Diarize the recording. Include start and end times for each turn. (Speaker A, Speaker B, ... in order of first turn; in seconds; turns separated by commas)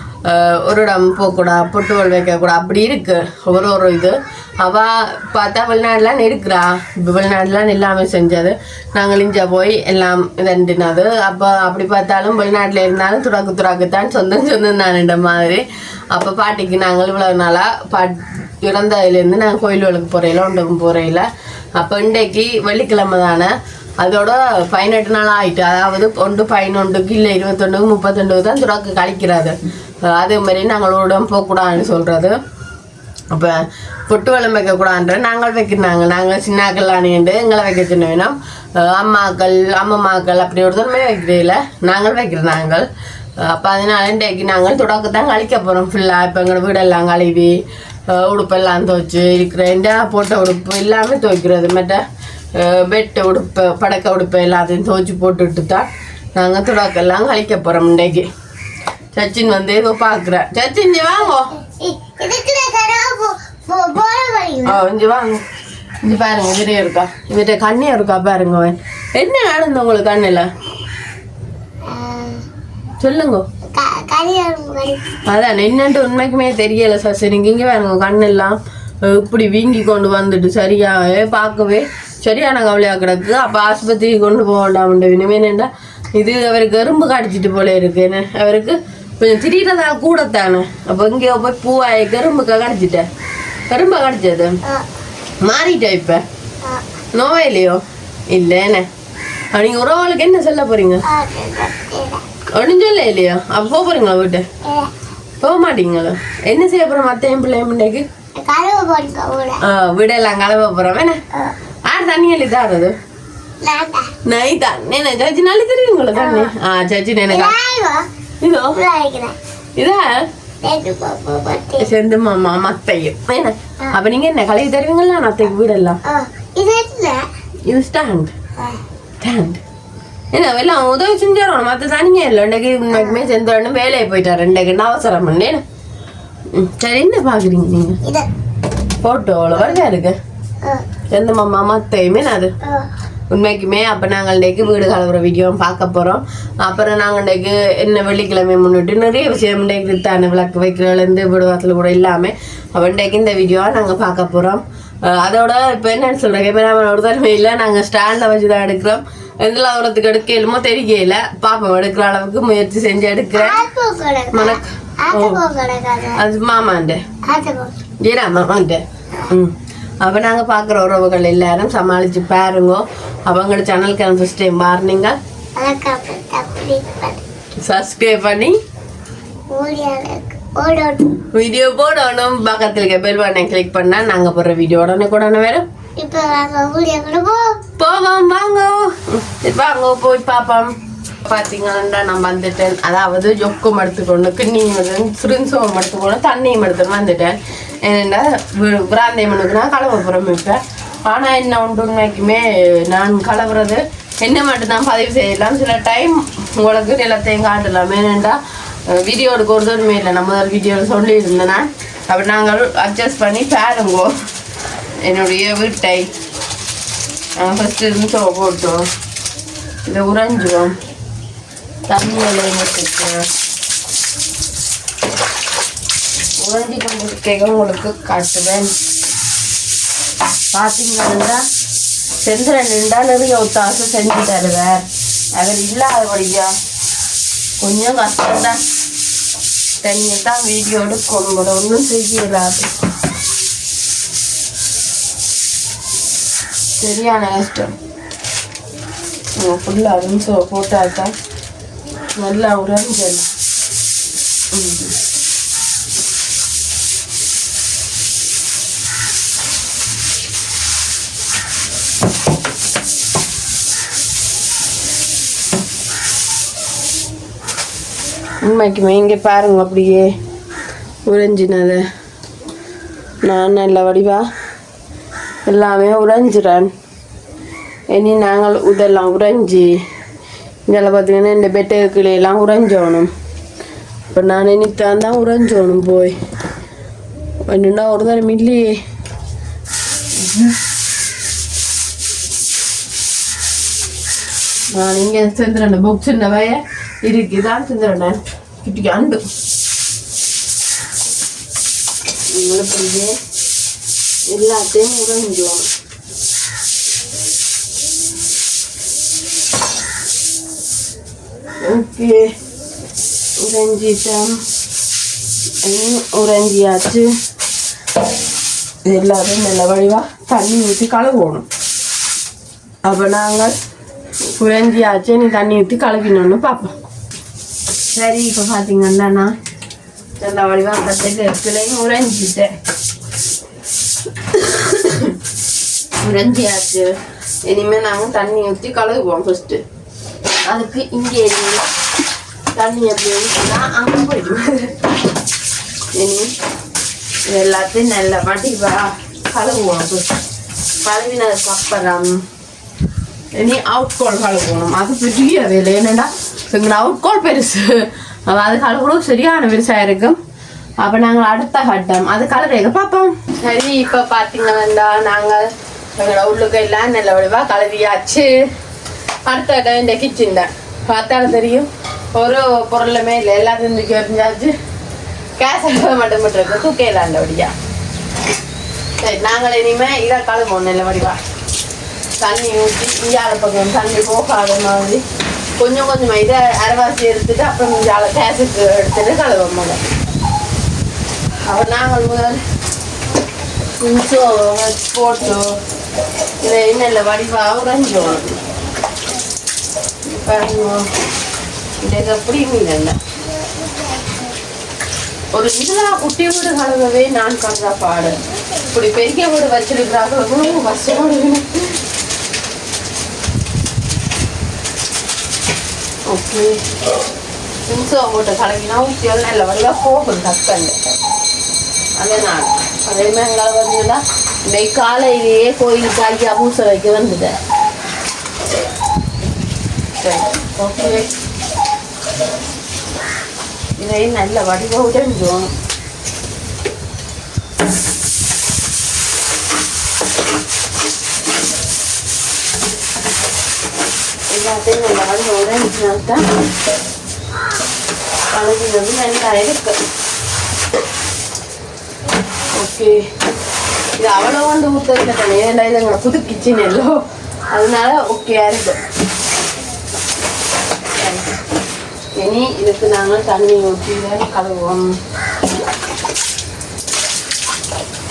Speaker A: 0.2-32.3, Speaker A: 33.3-33.6, Speaker A: 34.1-42.9, Speaker A: 43.4-52.0, Speaker A: 52.6-58.3, Speaker A: 59.1-61.5, Speaker B: 61.5-64.8, Speaker A: 64.6-65.4, Speaker A: 66.0-70.5, Speaker B: 71.9-72.4, Speaker A: 73.0-73.5, Speaker B: 73.7-75.1, Speaker A: 75.2-93.1, Speaker A: 93.7-94.6, Speaker A: 95.4-96.2, Speaker A: 97.1-98.9, Speaker A: 99.5-101.1, Speaker B: 101.1-102.2, Speaker A: 102.6-104.5, Speaker B: 104.6-104.9, Speaker A: 105.4-108.0, Speaker B: 108.4-109.6, Speaker A: 109.6-111.2, Speaker A: 111.9-112.9, Speaker B: 113.6-114.1, Speaker A: 114.2-117.5, Speaker B: 116.1-116.5, Speaker B: 117.3-118.0, Speaker A: 118.4-118.8, Speaker B: 118.7-119.3, Speaker A: 119.8-120.1, Speaker B: 120.6-121.9, Speaker A: 121.7-126.0, Speaker B: 126.0-127.2, Speaker A: 127.7-128.3, Speaker A: 129.2-129.6, Speaker A: 130.3-135.6, Speaker B: 132.9-133.3, Speaker A: 136.5-138.0, Speaker A: 139.0-140.2, Speaker A: 141.1-142.5, Speaker A: 143.3-163.6, Speaker B: 163.3-166.2, Speaker A: 164.3-165.4, Speaker A: 166.1-167.0, Speaker B: 167.3-167.7, Speaker A: 168.0-175.2, Speaker B: 175.6-177.2, Speaker A: 177.6-178.5, Speaker B: 179.5-181.2, Speaker A: 181.3-185.7, Speaker B: 186.0-187.6, Speaker A: 187.8-190.7, Speaker A: 191.2-214.1, Speaker A: 215.0-216.1, Speaker A: 217.4-218.9, Speaker A: 219.8-220.8, Speaker A: 221.9-223.2, Speaker A: 226.4-228.7, Speaker A: 230.5-231.4, Speaker A: 232.2-236.5, Speaker A: 237.6-238.6, Speaker A: 239.8-242.7, Speaker A: 246.8-247.7, Speaker A: 249.4-251.1, Speaker A: 252.2-253.3, Speaker A: 254.5-254.9, Speaker A: 268.4-270.1, Speaker A: 271.1-271.8, Speaker A: 273.2-274.2, Speaker A: 275.4-276.7, Speaker A: 277.9-279.8, Speaker A: 280.7-283.1, Speaker A: 284.1-286.1, Speaker A: 287.4-288.8, Speaker A: 290.2-290.5, Speaker A: 294.7-299.2, Speaker A: 302.3-303.2, Speaker A: 304.3-305.7, Speaker A: 311.6-312.3, Speaker A: 313.4-314.4, Speaker A: 315.6-317.1, Speaker A: 318.8-321.4, Speaker A: 322.8-323.5, Speaker A: 324.4-326.7, Speaker A: 327.9-329.3, Speaker A: 330.2-332.5, Speaker A: 334.3-335.2, Speaker A: 336.0-336.9, Speaker A: 337.4-339.6, Speaker A: 340.5-341.6, Speaker A: 342.5-344.8, Speaker A: 345.9-346.3, Speaker A: 347.3-350.2, Speaker A: 350.8-352.2, Speaker A: 353.4-360.2, Speaker A: 360.8-368.4, Speaker A: 369.3-374.5, Speaker A: 375.4-377.5, Speaker A: 379.0-381.2, Speaker A: 382.2-385.0, Speaker A: 385.6-389.8, Speaker A: 391.5-392.4, Speaker A: 393.8-395.5, Speaker A: 396.4-398.4, Speaker A: 400.1-400.9, Speaker A: 401.8-403.0, Speaker A: 405.3-411.8, Speaker A: 416.1-416.5, Speaker A: 417.7-420.8, Speaker A: 422.0-427.4, Speaker A: 430.0-431.1, Speaker A: 433.8-435.5, Speaker A: 444.3-446.2, Speaker A: 448.3-449.8, Speaker A: 452.5-453.0, Speaker A: 454.0-457.0, Speaker A: 457.5-458.8, Speaker A: 461.0-461.4, Speaker A: 462.1-464.9